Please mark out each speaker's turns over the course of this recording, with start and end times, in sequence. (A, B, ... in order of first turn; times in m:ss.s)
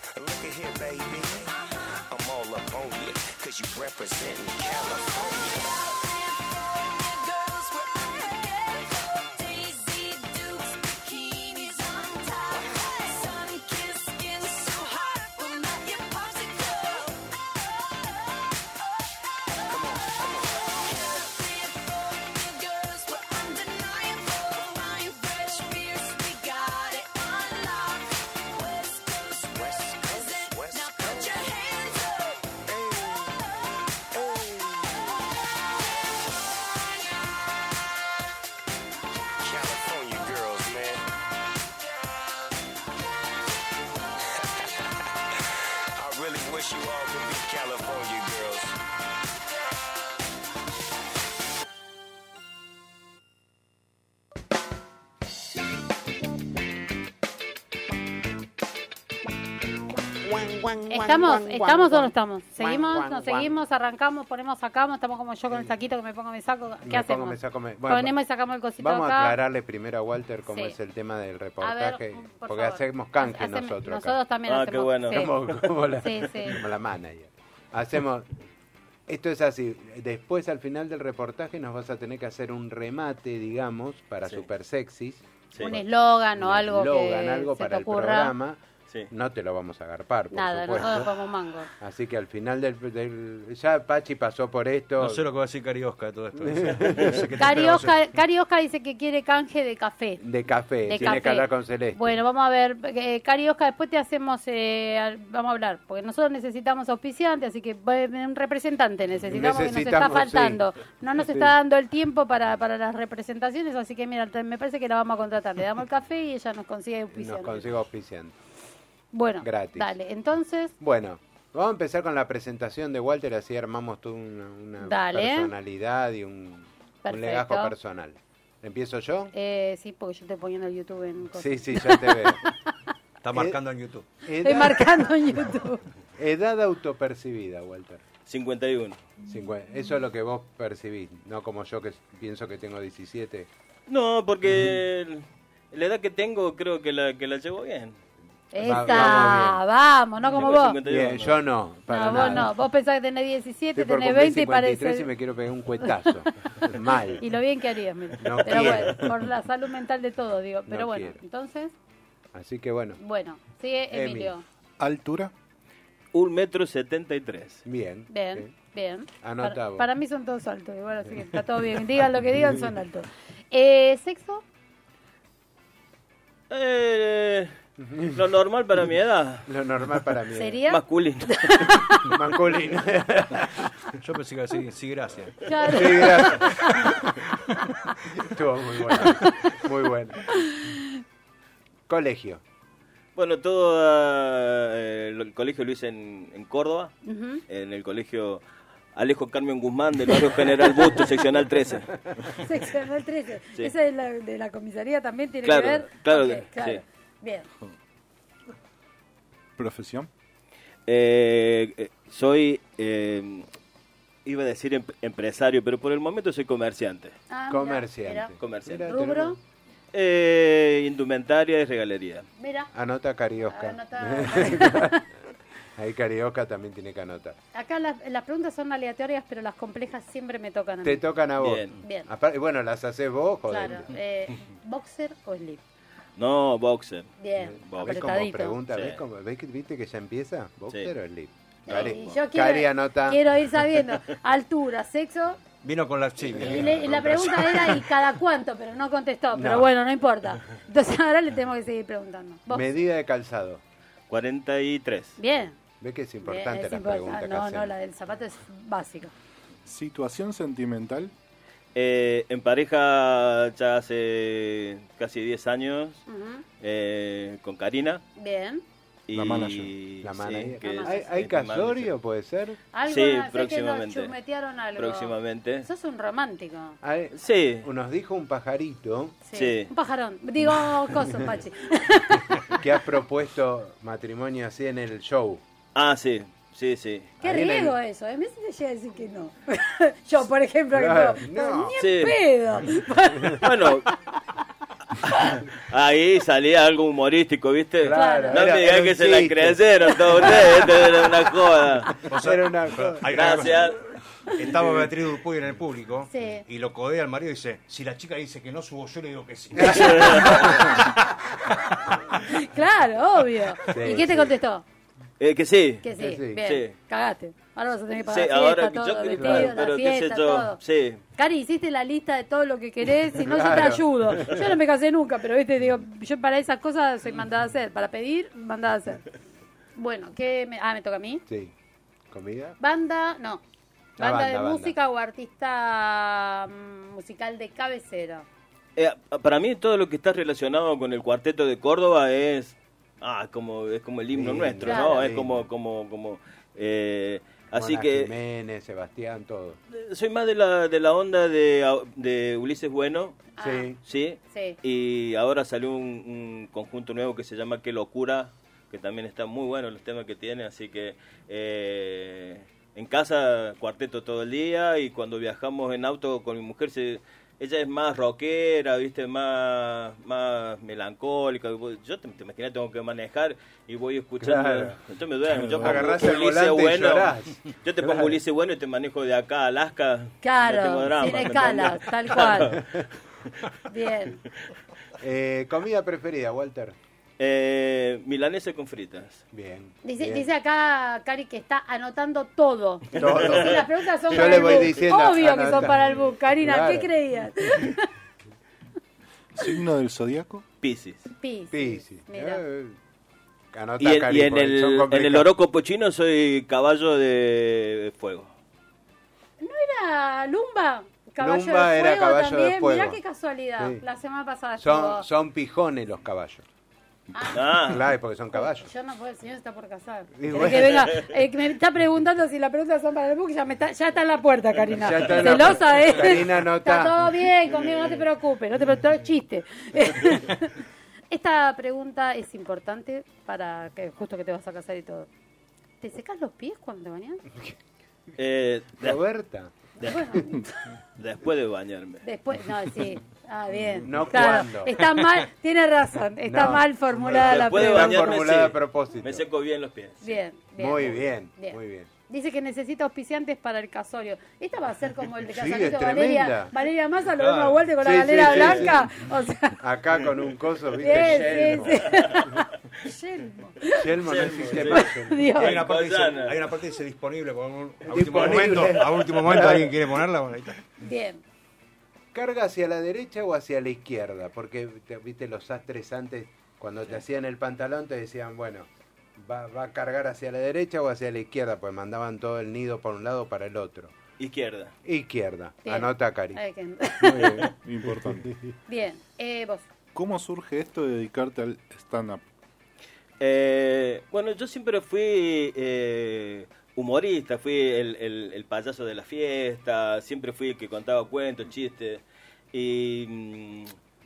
0:00.1-0:05.9 A
0:01.5-0:02.1 B
0:05.1-0:17.2 B
0:12.5-0:13.1 A
0:19.5-0:32.4 B
0:19.6-0:21.1 A
0:29.5-0:31.9 A
0:32.7-0:35.3 A
0:39.4-0:41.1 A
0:44.4-0:44.9 A
0:46.0-0:48.8 A
1:00.3-1:01.2 A
1:00.9-1:09.4 C
1:02.6-1:03.3 D
1:06.9-1:08.2 D
1:08.8-1:14.2 D
1:10.5-1:10.8 C
1:11.6-1:15.3 C
1:14.4-1:15.6 E
1:15.1-1:18.3 D
1:16.0-1:16.6 C
1:19.1-1:31.1 D
1:25.6-1:28.3 C
1:30.3-1:31.7 C
1:31.8-1:35.2 D
1:35.0-1:38.0 F
1:36.4-1:37.3 D
1:37.4-1:40.2 C
1:40.2-1:42.2 D
1:40.8-1:57.7 C
1:49.3-1:51.5 D
1:57.1-1:58.4 D
1:59.1-2:00.8 C
1:59.4-2:00.0 D
2:00.8-2:09.3 D
2:04.8-2:05.5 C
2:07.0-2:07.7 C
2:09.3-2:12.7 C
2:11.3-2:12.4 D
2:13.2-2:14.1 F
2:13.3-2:13.6 D
2:14.2-2:15.4 D
2:14.4-2:15.8 C
2:16.2-2:18.0 D
2:18.3-2:19.0 E
2:19.2-2:23.5 D
2:23.9-2:28.0 E
2:28.5-2:30.8 C
2:28.6-2:29.6 D
2:28.7-2:29.4 E
2:30.4-2:31.4 E
2:30.8-2:32.5 D
2:31.9-2:35.1 C
2:33.8-2:37.2 D
2:36.6-2:41.7 C
2:38.2-2:39.1 D
2:38.4-2:38.8 E
2:40.7-2:41.2 D
2:42.3-2:43.0 D
2:43.0-2:44.4 C
2:43.9-2:44.3 D
2:44.8-2:45.3 G
2:46.1-2:47.6 E
2:47.6-2:48.5 D
2:48.1-2:54.4 C
2:49.2-2:49.9 D
2:56.5-2:57.5 E
2:57.8-2:58.2 D
2:58.0-2:59.5 E
2:59.4-3:00.6 D
3:00.4-3:02.2 C
3:00.7-3:01.4 E
3:02.1-3:03.7 D
3:03.9-3:06.0 F
3:05.4-3:06.9 C
3:05.6-3:06.9 D
3:08.2-3:10.4 D
3:10.3-3:10.8 C
3:11.9-3:12.4 D
3:13.2-3:18.4 E
3:17.0-3:17.4 C
3:18.9-3:22.0 E
3:22.4-3:27.5 C
3:25.4-3:26.8 E
3:29.6-3:30.1 G
3:30.9-3:33.4 E
3:34.2-3:37.1 E
3:37.3-3:38.3 C
3:37.5-3:39.4 D
3:38.4-3:38.9 E
3:38.9-3:39.4 C
3:39.9-3:42.3 E
3:42.4-3:42.7 C
3:42.7-3:45.0 D
3:43.5-3:45.0 C
3:45.8-3:47.4 D
3:47.5-3:51.0 C
3:50.8-3:53.9 D
3:51.4-3:51.7 E
3:51.8-3:52.1 C
3:53.5-3:55.6 C
3:56.2-3:58.0 E
3:57.2-3:58.6 C
3:57.4-4:03.2 D
3:58.7-3:59.0 E
4:01.7-4:02.2 E
4:01.7-4:05.4 C
4:05.6-4:07.9 F
4:06.4-4:12.7 C
4:06.4-4:06.8 D
4:09.3-4:09.7 D
4:12.5-4:13.6 D
4:14.1-4:15.2 E
4:15.2-4:15.6 C
4:15.8-4:17.7 D
4:16.2-4:19.1 C
4:19.6-4:21.1 G
4:21.8-4:26.0 E
4:26.1-4:26.4 C
4:26.6-4:28.0 E
4:28.2-4:28.6 C
4:29.1-4:31.9 E
4:29.1-4:29.7 G
4:30.0-4:32.6 D
4:30.6-4:31.1 C
4:32.7-4:36.8 C
4:32.9-4:34.1 E
4:34.8-4:35.7 E
4:36.8-4:39.2 D
4:37.1-4:37.7 E
4:39.3-4:42.6 C
4:39.3-4:39.7 E
4:42.5-4:45.4 D
4:45.8-4:47.1 E
4:47.2-4:47.8 D
4:47.2-4:53.7 C
4:50.7-4:51.8 D
4:51.8-4:52.2 E
4:53.4-4:53.9 E
4:55.0-5:02.0 E
4:57.8-5:01.0 D
4:57.9-4:58.4 C
5:02.1-5:12.2 F
5:02.1-5:03.5 D
5:03.1-5:03.8 E
5:06.1-5:06.4 C
5:09.6-5:10.8 D
5:09.7-5:10.5 E
5:12.2-5:14.6 C
5:13.6-5:14.3 D
5:15.2-5:16.7 E
5:15.8-5:20.6 C
5:15.9-5:16.4 D
5:18.1-5:21.0 E
5:19.2-5:19.6 D
5:21.2-5:29.0 C
5:23.1-5:24.4 D
5:29.8-5:31.2 C
5:31.3-5:31.5 D
5:32.1-5:32.6 D
5:32.6-5:33.4 C
5:34.0-5:38.3 C
5:34.0-5:34.8 D
5:38.8-5:48.1 E
5:44.1-5:45.4 D
5:44.6-5:45.0 C
5:47.5-5:49.6 D
5:49.7-5:53.3 E
5:53.4-5:53.7 C
5:53.4-5:53.8 D
5:53.8-6:22.7 E
5:54.3-5:54.6 C
6:14.2-6:14.8 D
6:15.3-6:16.1 G
6:15.6-6:18.2 D
6:20.2-6:22.6 C
6:23.7-6:24.2 C
6:25.0-6:26.8 D
6:27.2-6:29.2 E
6:29.3-6:30.3 D
6:29.8-6:37.9 C
6:33.0-6:36.9 D
6:33.0-6:33.6 E
6:39.4-6:40.4 G
6:40.6-6:41.1 E
6:41.2-6:42.4 C
6:41.5-6:42.8 D
6:43.5-6:45.3 D
6:43.8-6:48.3 E
6:49.4-6:55.0 C
6:51.2-6:53.0 D
6:53.6-6:53.8 D
6:54.6-6:56.4 D
6:57.1-6:57.5 C
6:57.3-6:57.8 E
6:57.5-6:58.7 D
6:58.3-7:15.1 C
7:00.2-7:00.9 D
7:04.7-7:07.1 D
7:07.6-7:08.0 E
7:15.8-7:17.2 C
7:18.2-7:19.0 E
7:18.8-7:19.5 D
7:19.9-7:20.6 C
7:21.0-7:22.0 E
7:22.0-7:28.1 C
7:23.8-7:24.8 D
7:26.2-7:29.2 D
7:27.1-7:30.2 E
7:30.0-7:39.6 C
7:30.6-7:31.9 D
7:35.3-7:36.6 D
7:37.2-7:37.7 F
7:37.8-7:38.9 D
7:39.6-7:42.3 D
7:40.8-7:43.9 C
7:40.8-7:42.2 E
7:43.7-7:45.4 D
7:44.0-7:46.5 E
7:44.6-7:45.6 C
7:45.4-7:50.6 F
7:47.9-7:50.0 D
7:50.8-7:51.2 C
7:52.1-8:03.9 D
8:04.2-8:04.7 E
8:04.8-8:06.4 D
8:05.6-8:07.5 C
8:07.0-8:07.5 D
8:07.1-8:08.4 G
8:08.7-8:09.7 C
8:09.9-8:12.2 G
8:13.2-8:23.7 E